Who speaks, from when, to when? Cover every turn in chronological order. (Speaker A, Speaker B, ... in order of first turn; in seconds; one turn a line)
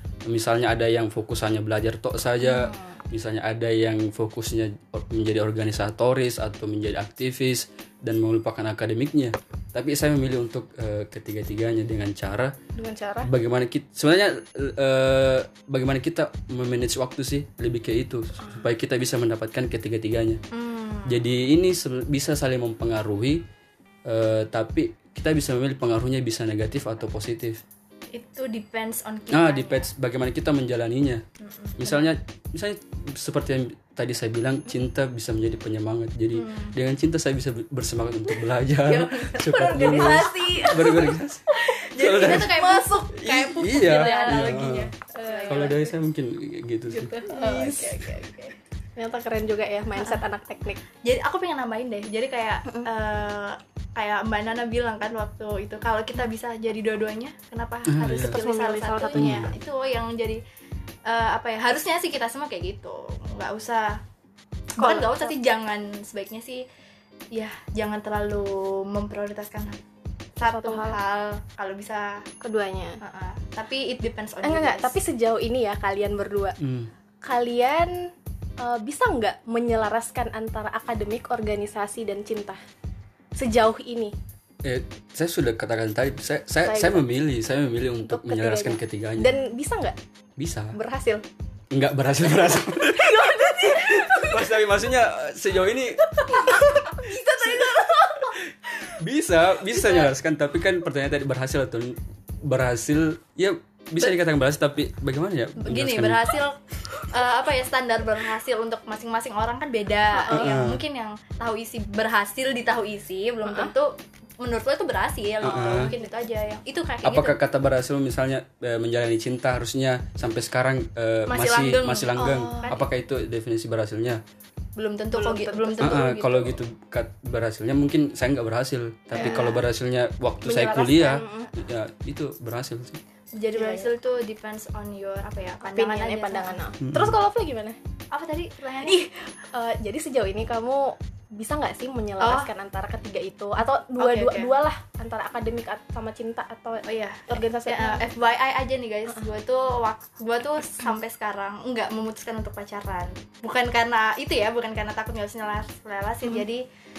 Speaker A: 0.2-12.5
Speaker B: 2.5-2.8
Speaker C: 12.8-13.3
Speaker A: 13.2-20.4
Speaker B: 20.5-21.3
Speaker A: 21.1-23.4
Speaker A: 24.1-27.6
Speaker B: 28.1-29.9
Speaker A: 29.3-31.2
Speaker B: 31.4-32.0
Speaker A: 31.8-42.6
Speaker B: 36.3-36.7
Speaker C: 38.9-45.8
Speaker B: 38.9-39.3
Speaker B: 41.9-45.8
Speaker A: 43.1-44.9
Speaker A: 45.5-47.1
Speaker B: 46.9-48.5
Speaker C: 47.3-50.8
Speaker B: 50.0-50.2
Speaker B: 51.0-60.4
Speaker A: 57.9-58.4
Speaker C: 58.2-59.5
Speaker A: 59.1-59.5
Speaker B: 61.1-64.0
Speaker B: 64.8-66.7
Speaker C: 64.8-65.4
Speaker B: 67.3-69.8
Speaker B: 70.3-72.2
Speaker C: 70.5-71.0
Speaker C: 72.4-73.0
Speaker B: 73.0-74.9
Speaker C: 74.4-76.6
Speaker A: 76.6-76.9
Speaker C: 77.2-82.6
Speaker C: 83.3-84.1
Speaker A: 84.6-89.4
Speaker C: 86.6-87.0
Speaker C: 88.0-90.0
Speaker A: 90.4-90.8
Speaker C: 90.7-91.2
Speaker A: 91.7-97.0
Speaker C: 92.6-94.6
Speaker C: 96.0-98.4
Speaker A: 98.3-106.3
Speaker B: 105.6-117.3
Speaker C: 110.1-110.5
Speaker A: 110.3-110.8
Speaker C: 113.4-113.7
Speaker A: 115.4-115.9
Speaker C: 115.4-116.2
Speaker A: 117.0-124.2
Speaker B: 121.3-122.8
Speaker C: 122.2-122.8
Speaker B: 124.8-126.4
Speaker C: 125.1-126.5
Speaker A: 125.8-133.0
Speaker C: 129.1-129.6
Speaker B: 129.2-129.6
Speaker C: 130.4-131.5
Speaker B: 133.3-136.6
Speaker C: 133.6-133.9
Speaker C: 135.6-137.8
Speaker A: 136.8-137.2
Speaker B: 138.1-139.0
Speaker C: 138.8-148.0
Speaker B: 142.2-142.5
Speaker B: 143.9-144.5
Speaker B: 146.8-156.6